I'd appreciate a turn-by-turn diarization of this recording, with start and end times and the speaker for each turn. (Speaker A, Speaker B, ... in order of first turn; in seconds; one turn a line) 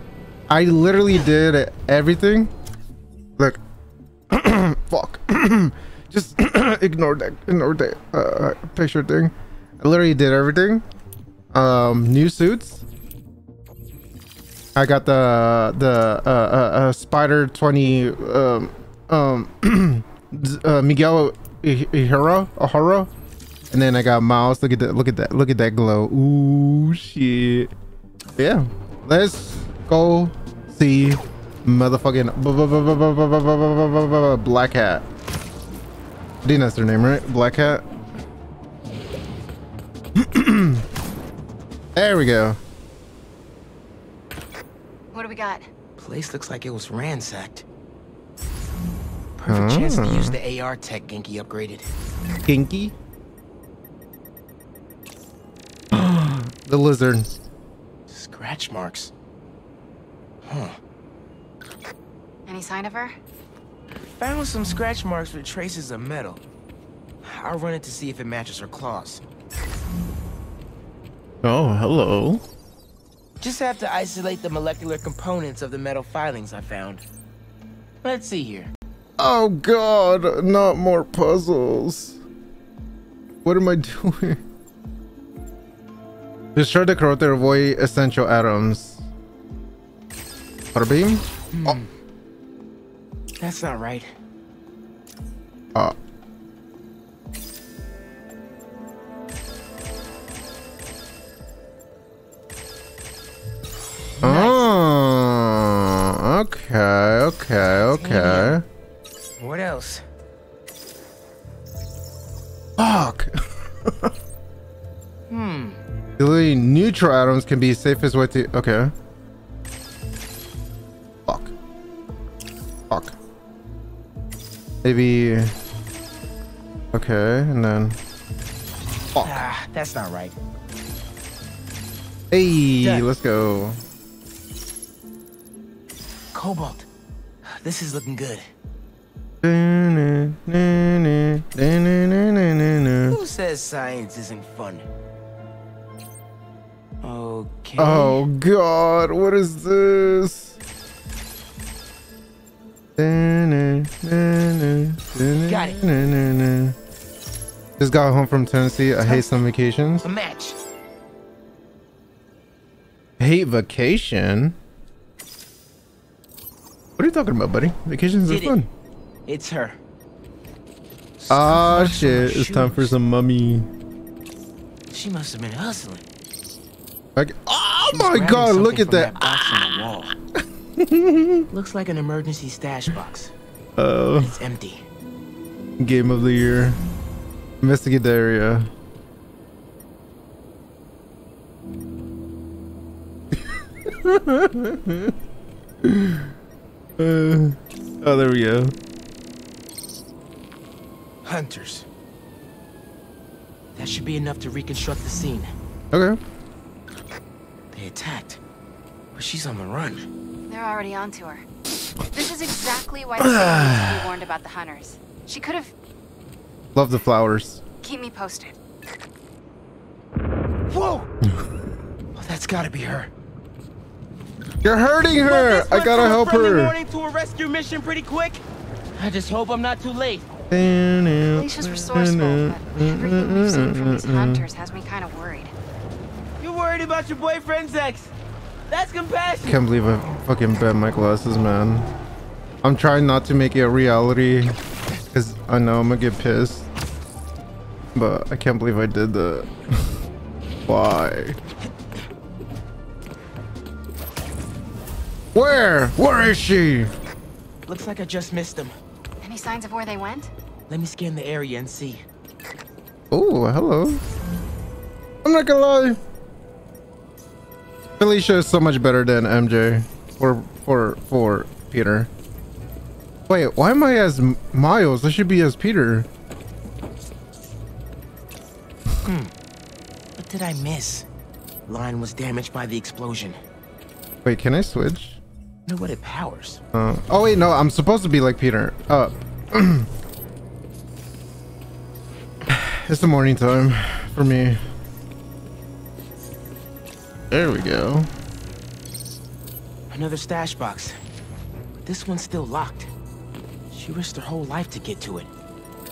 Speaker A: 0.5-2.5
Speaker A: 4.3-10.8
Speaker A: 11.5-12.8
Speaker A: 14.7-23.1
Speaker A: 23.7-27.7
Speaker A: 28.4-35.0
Speaker A: 36.4-37.8
Speaker A: 40.1-40.8
Speaker A: 42.0-42.6
Speaker B: 45.1-45.7
Speaker C: 46.0-47.7
Speaker C: 49.4-51.9
Speaker A: 49.5-50.4
Speaker A: 52.5-52.9
Speaker A: 55.9-57.3
Speaker C: 58.1-59.1
Speaker C: 60.5-60.8
Speaker B: 62.5-63.2
Speaker C: 64.0-66.4
Speaker C: 67.2-69.2
Speaker A: 71.4-72.4
Speaker C: 73.4-77.0
Speaker C: 78.0-78.7
Speaker A: 79.2-82.2
Speaker A: 83.4-84.4
Speaker A: 86.5-89.0
Speaker A: 90.7-91.8
Speaker C: 91.5-91.9
Speaker C: 93.4-94.1
Speaker C: 104.2-104.6
Speaker A: 104.2-108.7
Speaker C: 107.9-108.6
Speaker C: 109.4-110.0
Speaker A: 112.8-114.1
Speaker C: 115.3-115.8
Speaker A: 116.2-118.9
Speaker A: 121.3-121.5
Speaker A: 122.9-123.2
Speaker A: 124.8-125.5
Speaker A: 126.9-128.0
Speaker A: 129.2-129.4
Speaker C: 129.2-130.3
Speaker A: 132.3-133.8
Speaker C: 132.8-133.1
Speaker C: 136.3-136.9
Speaker C: 137.4-138.5
Speaker A: 139.4-143.2
Speaker C: 143.1-144.9
Speaker C: 147.0-148.2
Speaker A: 147.8-150.6
Speaker A: 153.0-156.8
Speaker C: 155.5-155.8
Speaker A: 157.8-160.1
Speaker C: 159.0-159.4
Speaker C: 160.0-160.6
Speaker A: 163.2-164.6
Speaker A: 167.0-168.7
Speaker C: 168.2-168.6
Speaker C: 169.3-169.8
Speaker C: 171.2-173.0
Speaker A: 171.3-173.7
Speaker C: 174.9-176.1
Speaker A: 177.2-179.2
Speaker C: 177.9-180.1
Speaker A: 180.8-181.5
Speaker C: 181.5-183.3
Speaker A: 183.8-184.4
Speaker C: 184.2-184.8
Speaker A: 185.8-186.8
Speaker A: 187.6-188.7
Speaker A: 193.3-195.2
Speaker A: 195.8-196.3
Speaker A: 197.0-198.7
Speaker C: 201.2-201.9
Speaker C: 203.8-205.5
Speaker A: 205.9-206.2
Speaker C: 207.7-208.4
Speaker C: 209.1-210.1
Speaker B: 210.5-211.4
Speaker B: 212.1-215.8
Speaker A: 213.2-214.1
Speaker A: 216.7-217.6
Speaker B: 217.8-218.6
Speaker C: 220.7-221.1
Speaker C: 222.2-223.1
Speaker A: 224.6-226.8
Speaker C: 225.2-228.4
Speaker C: 229.0-230.2
Speaker A: 230.5-234.5
Speaker B: 231.3-235.5
Speaker C: 236.4-238.1
Speaker C: 238.7-239.6
Speaker A: 239.4-241.9
Speaker A: 242.6-244.6
Speaker A: 245.1-246.7
Speaker A: 247.9-250.0
Speaker A: 250.7-251.4
Speaker A: 255.3-256.9
Speaker C: 257.7-258.7
Speaker B: 259.2-260.3
Speaker C: 260.7-262.0
Speaker A: 263.1-264.0
Speaker A: 265.2-266.0
Speaker A: 268.0-272.1
Speaker A: 273.3-276.1
Speaker C: 279.0-279.3
Speaker C: 280.2-281.1
Speaker C: 281.7-283.4
Speaker A: 284.2-285.2
Speaker C: 285.7-286.6
Speaker A: 286.7-289.9
Speaker A: 292.4-294.6
Speaker A: 297.3-298.1
Speaker C: 299.9-300.9
Speaker C: 301.8-302.9
Speaker C: 303.7-305.3